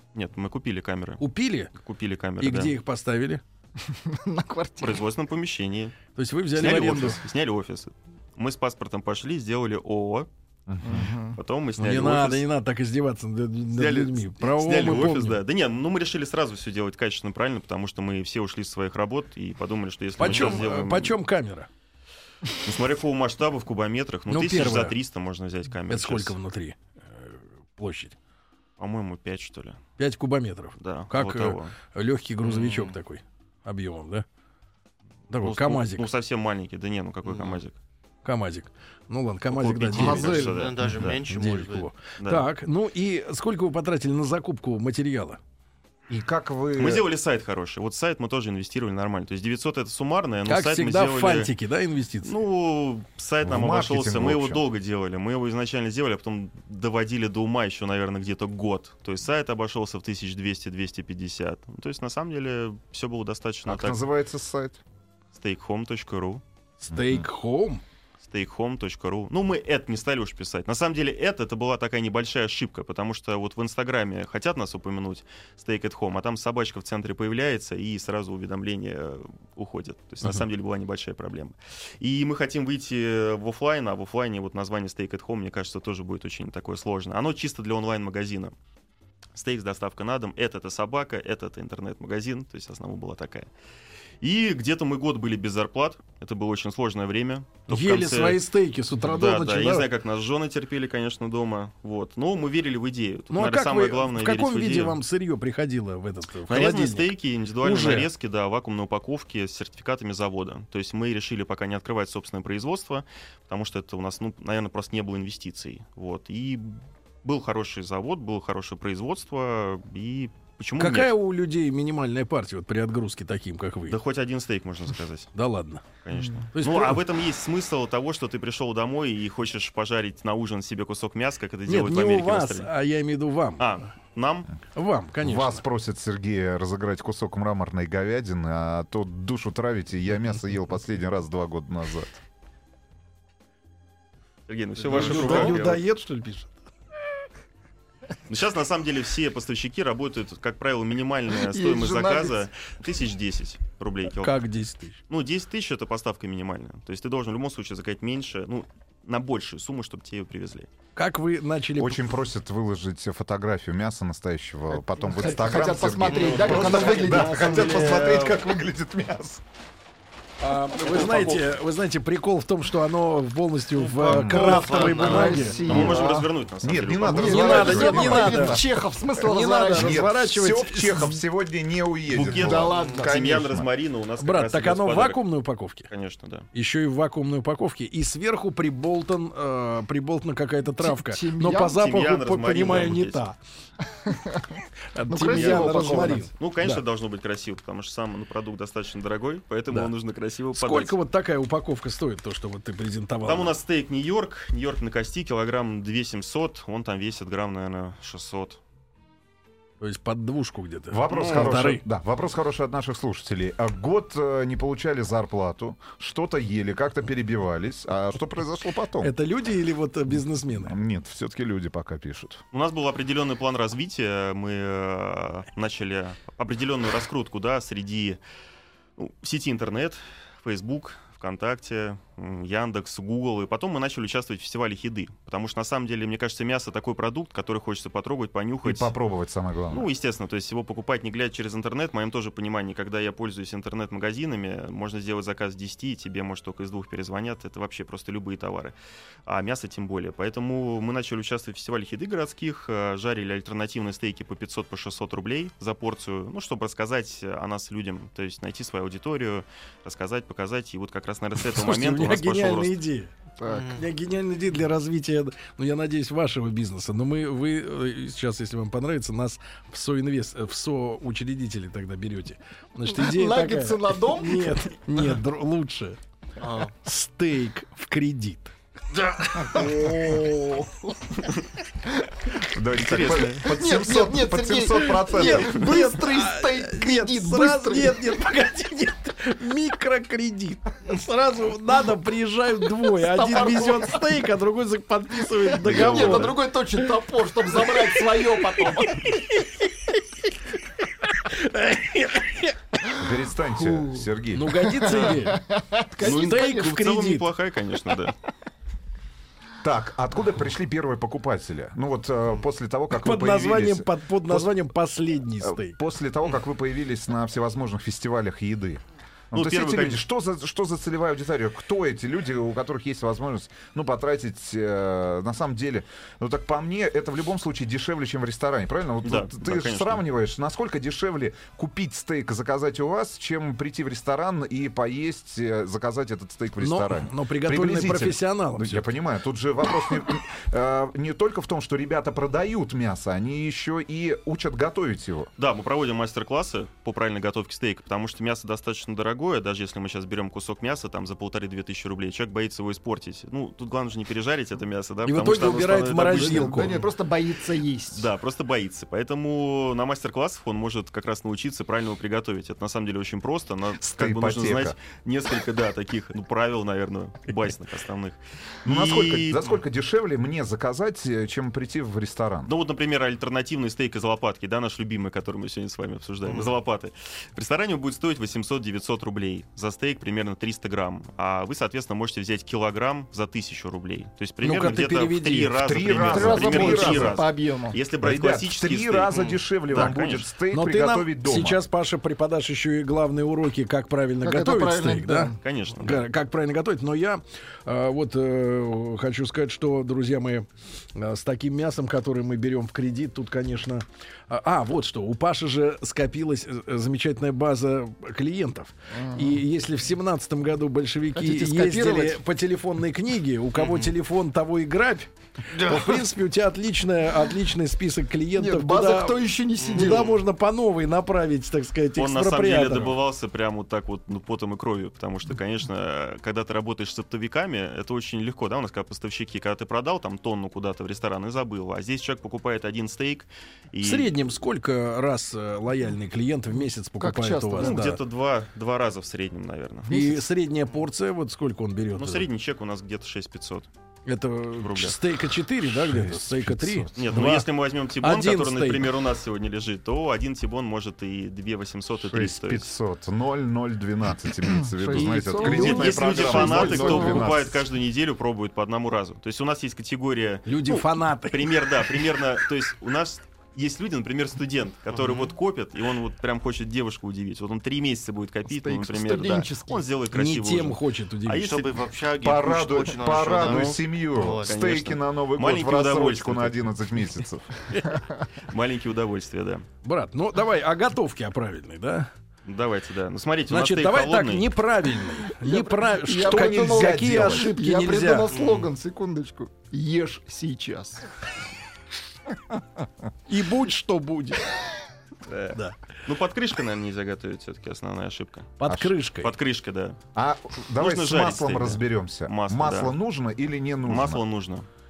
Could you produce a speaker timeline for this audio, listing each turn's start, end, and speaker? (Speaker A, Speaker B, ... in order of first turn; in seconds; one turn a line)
Speaker A: 0.1-1.2
Speaker B: 1.2-1.7
Speaker A: 1.7-2.8
Speaker B: 2.4-3.4
Speaker C: 3.8-5.0
Speaker A: 4.8-6.0
Speaker B: 6.1-7.2
Speaker A: 6.5-10.3
Speaker D: 10.7-11.1
Speaker C: 10.8-11.4
Speaker A: 11.3-12.4
Speaker B: 11.8-15.4
Speaker A: 13.7-21.2
Speaker B: 20.2-21.7
Speaker A: 22.6-26.4
Speaker B: 24.3-25.0
Speaker B: 25.9-28.1
Speaker A: 28.8-29.8
Speaker B: 30.0-34.2
Speaker A: 30.8-31.7
Speaker E: 32.4-33.0
Speaker B: 35.3-36.1
Speaker A: 35.4-37.7
Speaker E: 37.2-37.6
Speaker B: 38.2-40.5
Speaker A: 39.5-41.2
Speaker C: 39.9-40.6
Speaker E: 40.5-41.9
Speaker B: 41.2-45.4
Speaker A: 42.2-42.5
Speaker D: 46.1-47.0
Speaker A: 46.8-51.5
Speaker B: 50.5-52.3
Speaker A: 52.2-64.0
Speaker D: 53.4-54.6
Speaker D: 63.6-64.8
Speaker A: 65.3-66.4
Speaker B: 66.8-67.8
Speaker D: 66.9-67.2
Speaker A: 68.2-88.5
Speaker A: 89.3-93.5
Speaker A: 94.2-98.4
Speaker B: 97.7-99.9
Speaker A: 99.0-105.0
Speaker B: 103.3-108.1
Speaker A: 106.5-121.1
Speaker B: 120.8-124.0
Speaker A: 123.9-125.3
Speaker B: 125.3-125.8
Speaker A: 126.0-132.7
Speaker B: 126.5-127.0
Speaker B: 131.7-133.8
Speaker A: 133.6-134.5
Speaker B: 134.7-135.6
Speaker D: 135.2-142.2
Speaker A: 144.5-145.8
Speaker B: 144.9-146.6
Speaker D: 145.2-145.5
Speaker A: 148.3-154.4
Speaker C: 151.4-152.4
Speaker B: 154.1-155.0
Speaker A: 155.1-160.7
Speaker B: 160.9-162.0
Speaker D: 161.8-169.4
Speaker C: 164.9-168.4
Speaker B: 166.5-168.1
Speaker A: 166.5-166.8
Speaker B: 170.4-175.6
Speaker A: 170.8-171.5
Speaker D: 174.0-174.7
Speaker E: 174.1-175.6
Speaker C: 174.3-176.3
Speaker A: 175.6-177.8
Speaker D: 175.7-178.7
Speaker C: 177.1-180.1
Speaker B: 177.2-178.6
Speaker B: 179.2-181.2
Speaker D: 179.7-183.7
Speaker A: 182.1-185.2
Speaker C: 182.3-183.1
Speaker E: 182.8-183.1
Speaker B: 184.2-185.9
Speaker A: 185.9-186.5
Speaker B: 186.5-193.4
Speaker C: 190.8-191.8
Speaker A: 191.7-193.2
Speaker C: 194.1-194.5
Speaker B: 194.9-196.8
Speaker C: 195.1-196.3
Speaker A: 195.3-200.9
Speaker D: 195.4-196.1
Speaker B: 200.5-203.6
Speaker A: 203.2-208.6
Speaker B: 209.8-211.8
Speaker D: 210.9-219.1
Speaker A: 211.1-211.6
Speaker B: 219.0-220.8
Speaker D: 220.1-222.4
Speaker A: 222.5-228.2
Speaker A: 229.0-238.9
Speaker D: 238.6-239.9
Speaker A: 239.7-248.7
Speaker A: 249.2-262.8
Speaker B: 261.5-263.1
Speaker C: 263.4-263.7
Speaker E: 263.4-263.9
Speaker B: 263.7-276.0
Speaker C: 272.9-274.6
Speaker E: 276.4-276.7
Speaker B: 276.8-278.5
Speaker E: 278.9-279.5
Speaker C: 279.4-280.9
Speaker D: 282.5-285.7
Speaker A: 282.8-283.4
Speaker C: 283.4-288.1
Speaker B: 285.1-296.4
Speaker C: 293.0-294.1
Speaker D: 295.6-296.3
Speaker C: 295.6-299.1
Speaker B: 301.2-302.6
Speaker D: 302.9-304.7
Speaker C: 303.5-304.1
Speaker B: 304.3-305.4
Speaker C: 304.6-306.8
Speaker B: 306.0-307.3
Speaker A: 306.0-308.1
Speaker D: 309.6-314.5
Speaker B: 312.9-315.8
Speaker D: 315.4-345.3
Speaker A: 319.3-320.0
Speaker A: 329.0-330.0
Speaker B: 336.6-338.8
Speaker A: 345.4-356.9
Speaker B: 355.1-356.7
Speaker C: 356.0-358.1
Speaker A: 357.9-369.4
Speaker D: 363.8-364.8
Speaker D: 368.6-372.5
Speaker A: 372.4-390.3
Speaker E: 376.2-376.5
Speaker B: 384.4-385.6
Speaker D: 385.6-387.2
Speaker C: 386.0-387.8
Speaker D: 388.0-391.6
Speaker E: 389.1-389.4
Speaker B: 390.5-422.9
Speaker C: 394.2-395.4
Speaker A: 395.4-396.0
Speaker C: 408.9-409.4
Speaker C: 411.2-412.2
Speaker E: 413.5-413.9
Speaker E: 415.5-416.0
Speaker C: 418.4-420.1
Speaker E: 419.6-420.1
Speaker A: 421.9-434.1
Speaker B: 433.8-438.0
Speaker C: 437.0-437.8
Speaker A: 437.6-440.0
Speaker B: 439.9-442.3
Speaker A: 441.9-443.7
Speaker B: 444.1-447.5
Speaker A: 444.6-445.0
Speaker D: 445.6-447.0
Speaker A: 446.9-452.8
Speaker B: 448.0-448.9
Speaker D: 452.0-457.6
Speaker C: 454.6-457.3
Speaker B: 454.9-457.2
Speaker A: 455.4-471.8
Speaker B: 460.4-461.7
Speaker E: 464.9-465.3
Speaker C: 468.5-469.8
Speaker B: 470.1-471.5
Speaker E: 471.3-474.5
Speaker D: 472.2-477.5
Speaker A: 474.4-476.6
Speaker A: 478.4-479.6
Speaker B: 479.8-482.1
Speaker A: 482.4-484.5
Speaker B: 483.5-488.3
Speaker C: 485.3-491.1
Speaker D: 486.2-487.6
Speaker E: 488.3-488.7
Speaker B: 493.3-494.4
Speaker A: 495.3-498.6
Speaker B: 498.6-499.3
Speaker D: 498.6-498.9
Speaker A: 499.2-500.0
Speaker D: 500.1-504.2
Speaker A: 500.7-502.9
Speaker A: 503.9-504.7